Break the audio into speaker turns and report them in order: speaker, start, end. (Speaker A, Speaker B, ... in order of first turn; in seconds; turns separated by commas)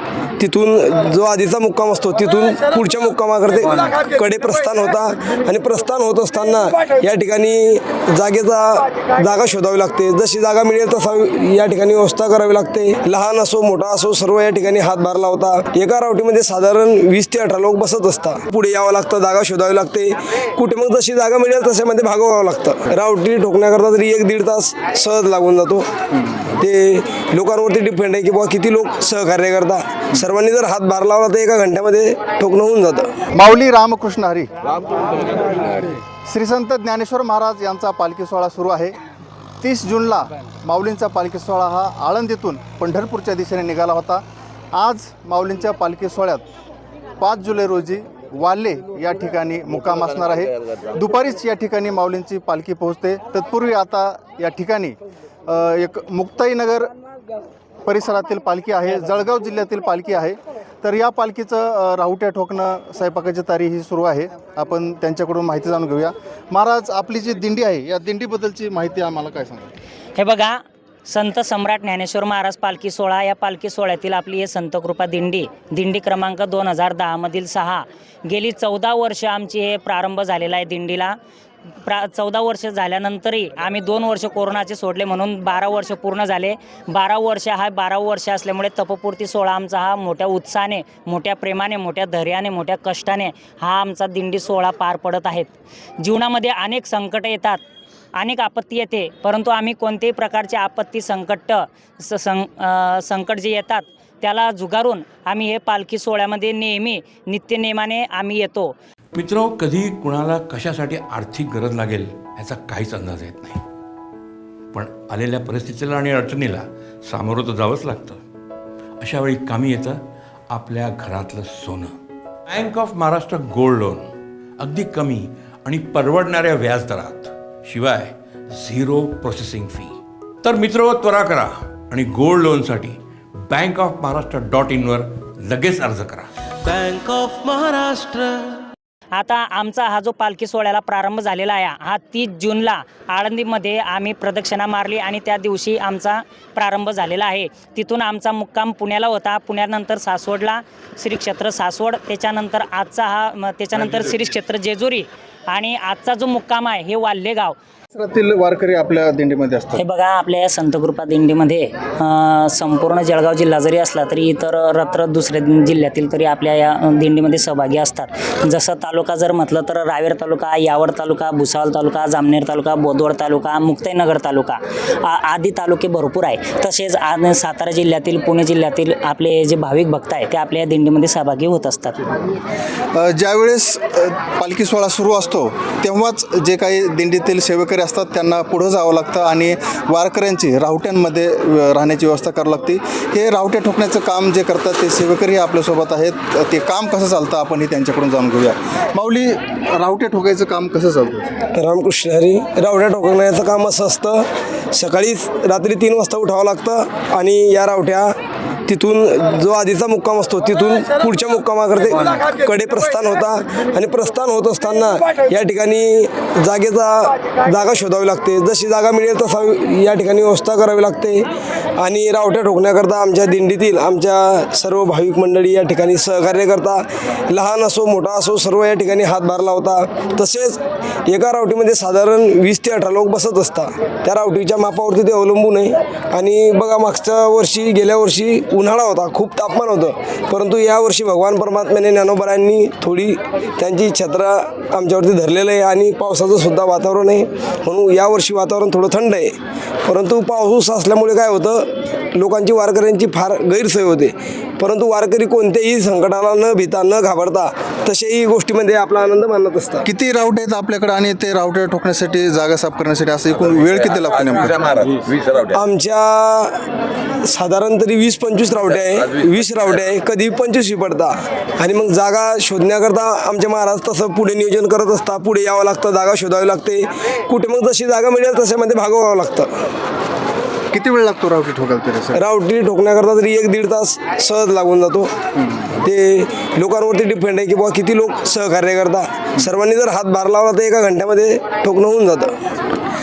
Speaker A: 0.4-25.9, Speaker A: 26.6-33.1, Speaker B: 33.3-34.5, Speaker B: 36.2-39.0, Speaker B: 39.6-46.4, Speaker B: 47.2-56.9, Speaker B: 57.8-69.7, Speaker C: 70.2-81.2, Speaker C: 81.8-97.6, Speaker C: 98.2-108.7, Speaker D: 109.1-113.6, Speaker D: 114.7-118.2, Speaker D: 119.0-120.0, Speaker D: 120.5-121.9, Speaker D: 122.5-136.3, Speaker E: 136.6-138.6, Speaker C: 139.2-157.6, Speaker B: 157.9-159.8, Speaker C: 159.8-182.0, Speaker B: 182.9-201.3, Speaker A: 201.6-208.1, Speaker A: 208.7-221.2, Speaker A: 221.8-249.3, Speaker A: 249.9-259.9, Speaker B: 259.8-265.0, Speaker A: 265.4-266.6, Speaker A: 267.2-279.5, Speaker B: 280.7-282.2, Speaker A: 282.1-285.1, Speaker B: 285.4-285.7, Speaker A: 285.8-292.3